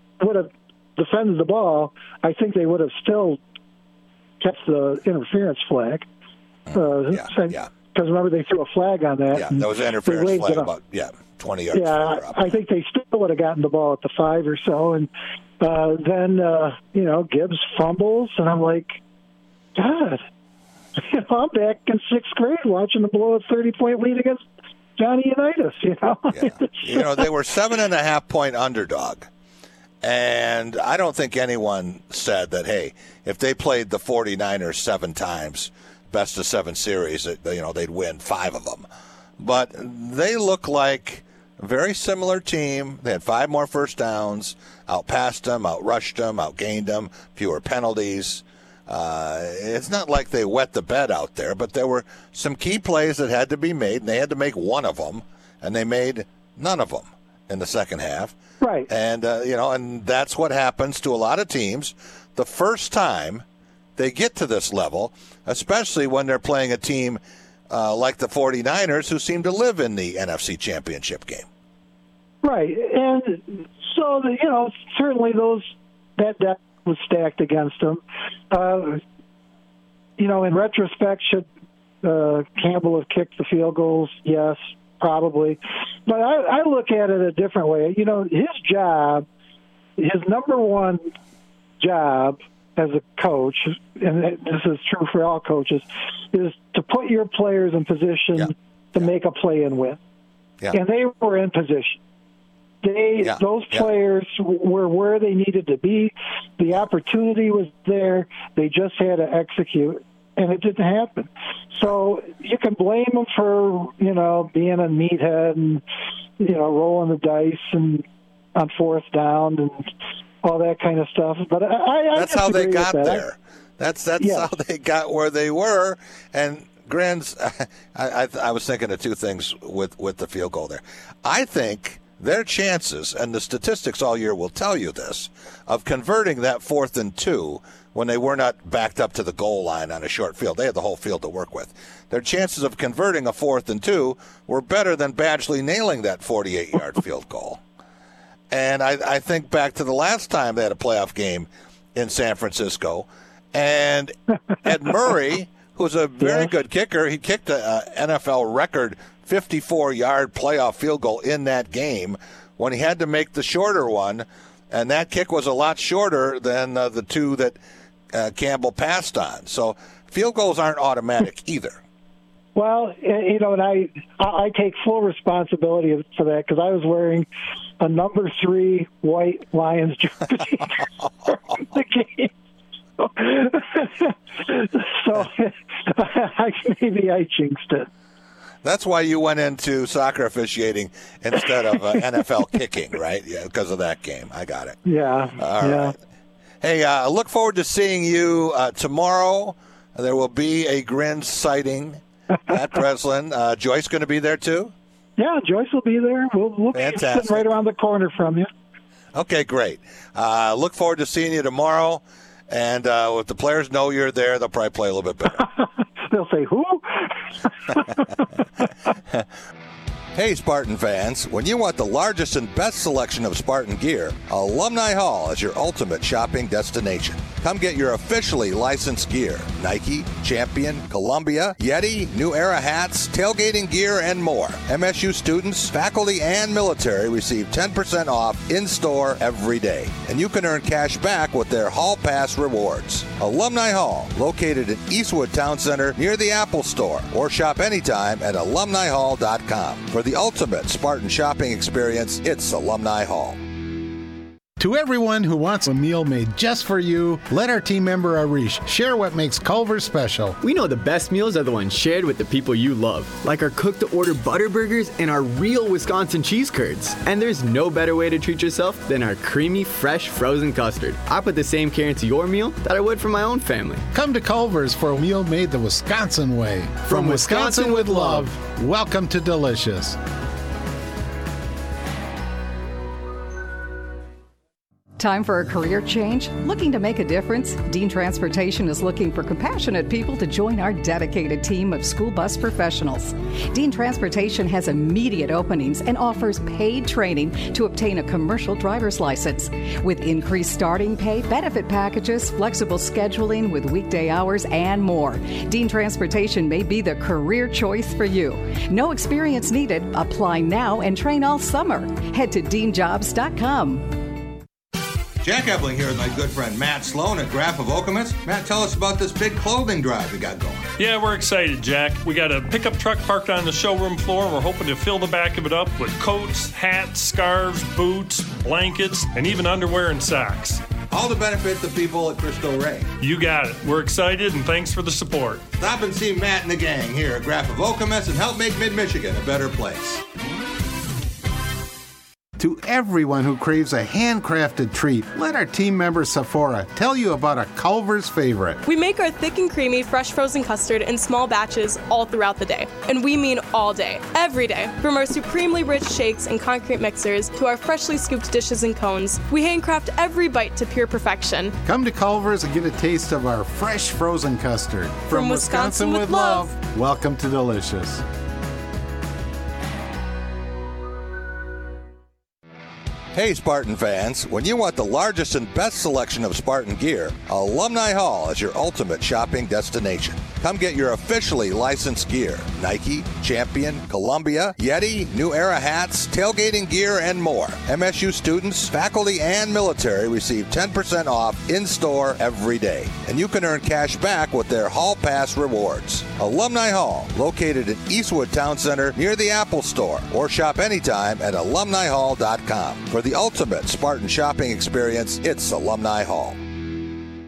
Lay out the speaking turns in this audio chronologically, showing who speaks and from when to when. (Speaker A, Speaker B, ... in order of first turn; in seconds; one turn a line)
Speaker A: 0.2-3.4
Speaker A: 4.4-6.0
Speaker B: 6.7-7.7
Speaker A: 6.7-10.7
Speaker B: 9.3-12.6
Speaker A: 11.7-15.1
Speaker A: 15.6-19.0
Speaker A: 19.8-20.2
Speaker A: 21.0-24.4
Speaker A: 25.0-27.2
Speaker B: 26.3-29.3
Speaker B: 30.0-38.8
Speaker B: 39.4-58.4
Speaker A: 58.6-58.9
Speaker B: 58.9-63.4
Speaker B: 64.0-71.5
Speaker A: 72.4-79.0
Speaker A: 80.2-81.5
Speaker A: 82.0-89.2
Speaker A: 90.0-91.0
Speaker A: 91.8-100.0
Speaker B: 98.4-99.1
Speaker A: 100.7-102.0
Speaker A: 102.8-115.8
Speaker B: 103.2-103.9
Speaker A: 116.4-118.0
Speaker A: 118.5-119.9
Speaker A: 120.4-123.2
Speaker B: 122.1-147.6
Speaker A: 124.2-124.5
Speaker B: 148.5-167.6
Speaker B: 168.1-171.8
Speaker A: 172.5-177.2
Speaker A: 177.8-180.8
Speaker A: 181.7-182.3
Speaker A: 183.0-187.9
Speaker B: 188.6-194.8
Speaker A: 194.8-195.9
Speaker B: 195.4-195.9
Speaker B: 196.6-204.7
Speaker A: 205.2-208.5
Speaker B: 206.7-207.4
Speaker B: 209.1-215.4
Speaker A: 215.4-218.1
Speaker B: 220.1-253.4
Speaker C: 254.6-260.4
Speaker D: 260.4-273.9
Speaker C: 273.9-280.0
Speaker D: 276.9-278.3
Speaker E: 285.0-313.9
Speaker B: 315.2-320.7
Speaker F: 320.8-330.6
Speaker B: 330.9-332.9
Speaker F: 333.0-335.4
Speaker B: 335.6-340.0
Speaker C: 342.4-348.6
Speaker G: 348.6-361.5
Speaker C: 361.6-368.0
Speaker G: 365.1-366.5
Speaker B: 373.1-406.4